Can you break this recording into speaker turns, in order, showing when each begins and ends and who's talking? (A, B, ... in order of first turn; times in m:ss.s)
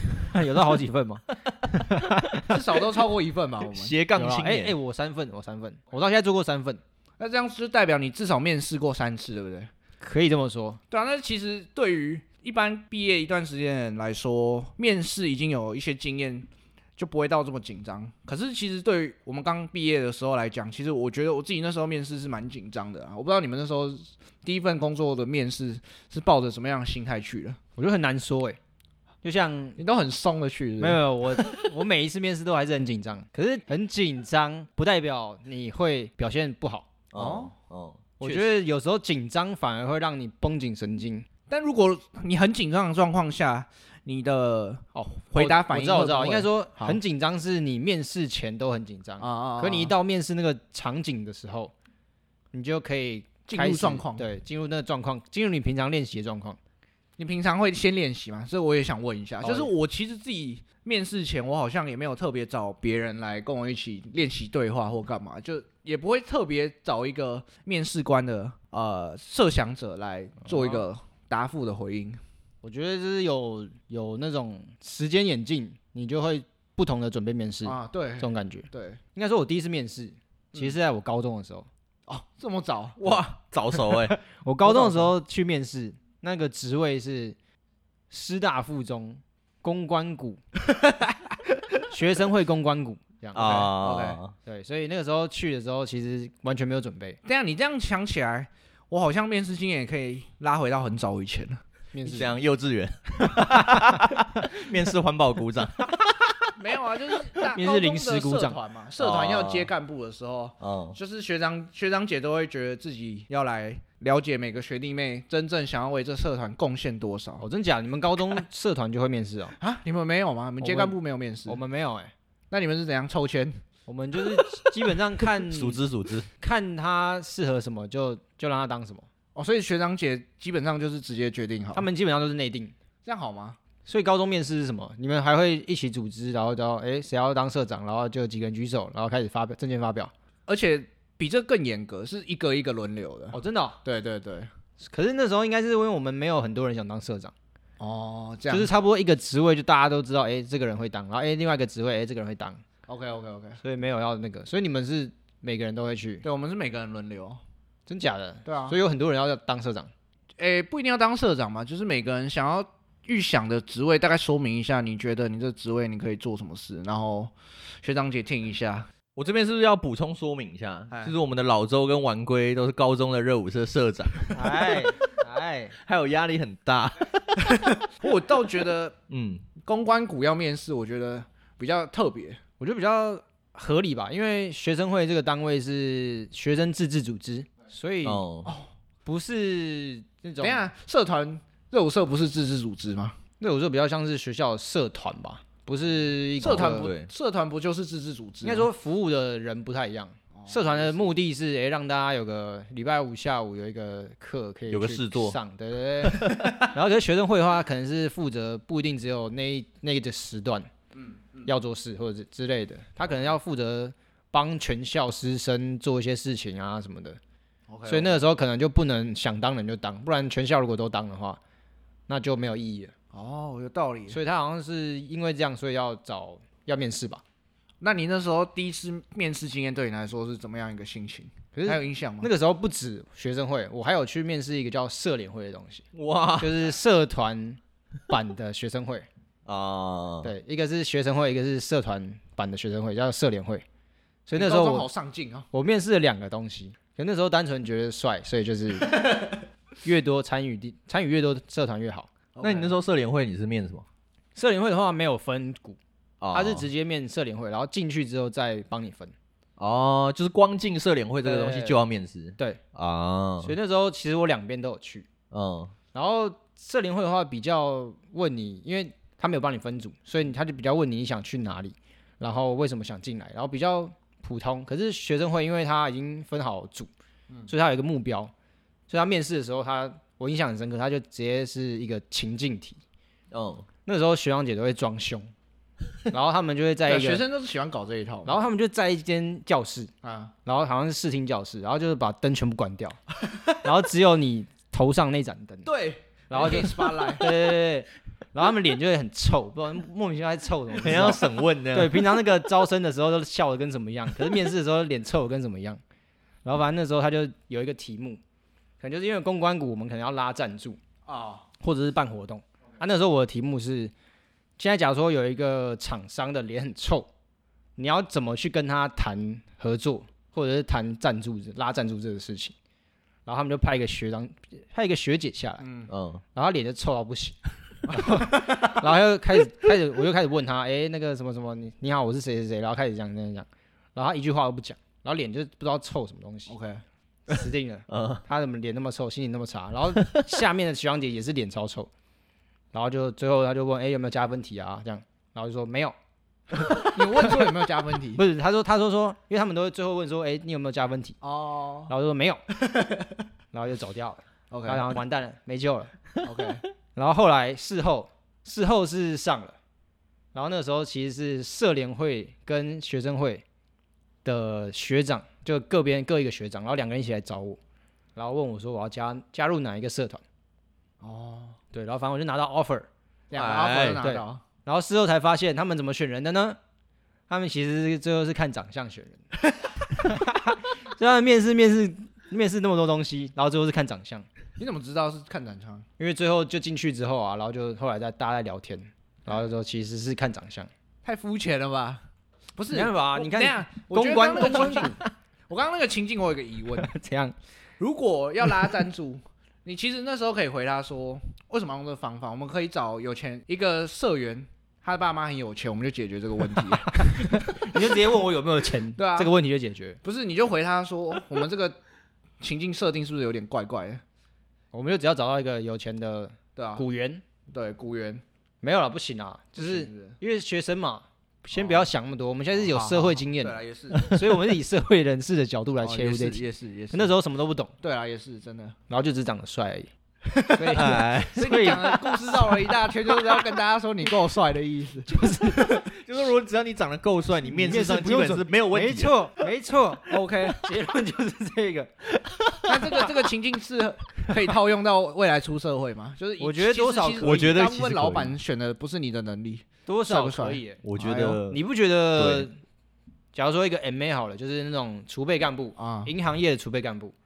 0:00.2-0:02.6 A
0:02.5-0:03.9 B
0:03.7-0:04.7 C
0:04.1-0:06.8 A
0:07.2-0:09.7 B
0:10.0-0:10.8 A
0:10.9-0:27.6 B
0:27.8-0:28.6 A
0:29.2-0:29.8 A
0:29.8-0:31.0 B
0:30.8-0:36.9 A
0:37.1-0:38.1 C
0:37.2-0:37.5 B
0:38.2-0:41.2 A
0:41.5-0:47.0 B
0:44.9-0:51.7 A
0:49.2-0:49.9 B
0:52.5-0:56.6 A
0:53.5-0:54.3 B
0:57.2-1:12.2 B
0:59.4-0:59.7 A
1:10.4-1:10.8 A
1:12.6-1:21.7 A
1:17.6-1:19.0 B
1:22.1-1:23.2 B
1:23.0-1:24.2 C
1:24.4-1:27.4 A
1:24.7-1:25.1 B
1:28.1-1:30.4 A
1:31.9-1:33.7 A
1:33.3-1:34.3 C
1:33.4-1:34.2 B
1:34.4-1:37.2 A
1:37.2-1:41.6 B
1:41.9-1:42.4 A
1:42.0-1:46.5 C
1:43.4-1:44.0 A
1:46.6-1:57.4 B
1:47.5-1:48.6 A
1:49.0-1:49.7 C
1:50.6-1:51.0 C
1:57.4-1:59.6 A
1:59.6-2:01.6 B
2:00.6-2:00.9 A
2:01.5-2:02.1 A
2:02.5-2:03.6 B
2:03.9-2:05.8 A
2:05.5-2:06.3 C
2:06.4-2:09.1 A
2:09.3-2:11.8 B
2:11.7-2:12.7 A
2:13.0-2:13.6 B
2:13.8-2:20.1 A
2:20.5-2:24.5 B
2:23.3-2:23.8 A
2:24.8-2:27.3 A
2:27.8-2:28.7 B
2:28.5-2:32.6 A
2:32.9-2:33.6 B
2:33.6-2:36.2 A
2:36.2-2:37.4 B
2:37.9-2:39.9 A
2:38.4-2:38.8 B
2:40.4-2:48.9 B
2:49.1-2:54.5 C
2:54.3-2:55.8 A
2:55.8-2:57.8 C
2:58.0-2:58.9 B
2:59.1-2:59.5 C
2:59.6-3:02.4 B
3:02.6-3:08.2 A
3:08.0-3:08.5 C
3:09.0-3:10.6 A
3:10.4-3:13.2 B
3:13.4-3:16.9 A
3:16.4-3:18.7 B
3:16.4-3:17.1 C
3:18.4-3:30.7 A
3:20.3-3:21.1 B
3:24.7-3:25.4 C
3:26.0-3:26.6 C
3:30.9-3:31.5 B
3:31.4-3:37.2 A
3:37.7-3:38.2 B
3:37.9-3:41.4 A
3:42.1-3:42.9 A
3:43.1-3:44.2 B
3:44.1-3:47.2 A
3:47.8-3:52.3 B
3:51.5-3:55.8 A
3:55.9-3:56.7 C
3:56.4-3:59.1 A
3:59.4-4:00.3 C
4:00.2-4:03.6 A
4:04.3-4:04.9 A
4:04.4-4:05.5 B
4:05.5-4:09.0 A
4:09.8-4:12.1 A
4:12.3-4:12.7 B
4:12.4-4:13.8 C
4:14.3-4:15.8 A
4:16.2-4:16.6 C
4:16.3-4:19.1 A
4:19.6-4:23.5 C
4:21.2-4:21.8 A
4:23.4-4:25.1 A
4:25.3-4:25.7 C
4:25.9-4:36.9 A
4:37.5-4:38.3 A
4:38.9-4:42.8 A
4:43.3-4:43.7 C
4:43.8-4:45.3 A
4:46.1-4:47.2 A
4:46.9-4:48.3 B
4:48.2-4:49.9 A
4:50.0-4:50.3 B
4:50.4-4:53.0 A
4:53.6-4:55.7 A
4:55.6-4:57.3 B
4:56.3-5:05.8 A
5:00.8-5:02.2 C
5:06.4-5:08.2 A
5:08.8-5:10.8 A
5:11.0-5:11.4 B
5:11.6-5:13.9 A
5:14.6-5:17.1 A
5:17.8-5:22.5 A
5:23.2-5:25.6 A
5:25.6-5:25.9 B
5:25.9-5:26.2 C
5:26.3-5:27.4 A
5:27.9-5:28.7 B
5:27.9-5:36.5 A
5:36.5-5:36.8 B
5:37.3-5:41.9 A
5:37.9-5:38.2 C
5:42.7-5:45.9 A
5:46.8-5:48.2 B
5:48.2-5:51.2 A
5:51.2-5:51.9 B
5:51.9-5:52.4 A
5:53.5-5:55.9 A
5:54.5-5:54.9 B
5:56.2-5:56.6 B
5:57.0-5:59.6 A
6:00.3-6:03.4 A
6:04.2-6:07.6 A
6:08.2-6:10.2 A
6:11.0-6:11.6 B
6:11.7-6:12.9 A
6:13.3-6:14.4 B
6:13.3-6:14.0 C
6:14.0-6:16.6 A
6:17.3-6:19.2 A
6:19.8-6:24.2 A
6:24.6-6:25.8 B
6:26.0-6:30.7 A
6:31.0-6:32.0 B
6:32.6-6:36.9 B
6:32.7-6:35.0 A
6:36.8-6:37.3 A
6:37.8-6:47.4 B
6:46.9-6:50.0 A
6:49.0-6:49.3 B
6:50.0-6:51.8 B
6:52.4-6:54.0 B
6:54.7-6:57.2 A
6:56.6-6:56.8 B
6:57.5-6:58.2 B
6:58.6-7:06.4 A
6:59.6-7:00.2 B
7:01.5-7:01.9 B
7:02.6-7:04.0 B
7:03.9-7:04.3 C
7:05.8-7:07.1 B
7:06.9-7:07.7 A
7:07.8-7:08.8 B
7:08.9-7:09.9 A
7:10.4-7:12.4 A
7:10.6-7:15.8 B
7:10.7-7:11.7 C
7:15.1-7:15.9 A
7:15.8-7:19.5 C
7:17.4-7:21.9 A
7:20.1-7:20.6 B
7:22.2-7:23.0 C
7:22.6-7:31.4 B
7:26.4-7:27.5 A
7:27.2-7:28.4 C
7:29.9-7:30.8 A
7:30.8-7:31.6 C
7:31.4-7:32.6 A
7:32.2-7:32.5 C
7:33.3-7:37.1 A
7:35.8-7:36.1 B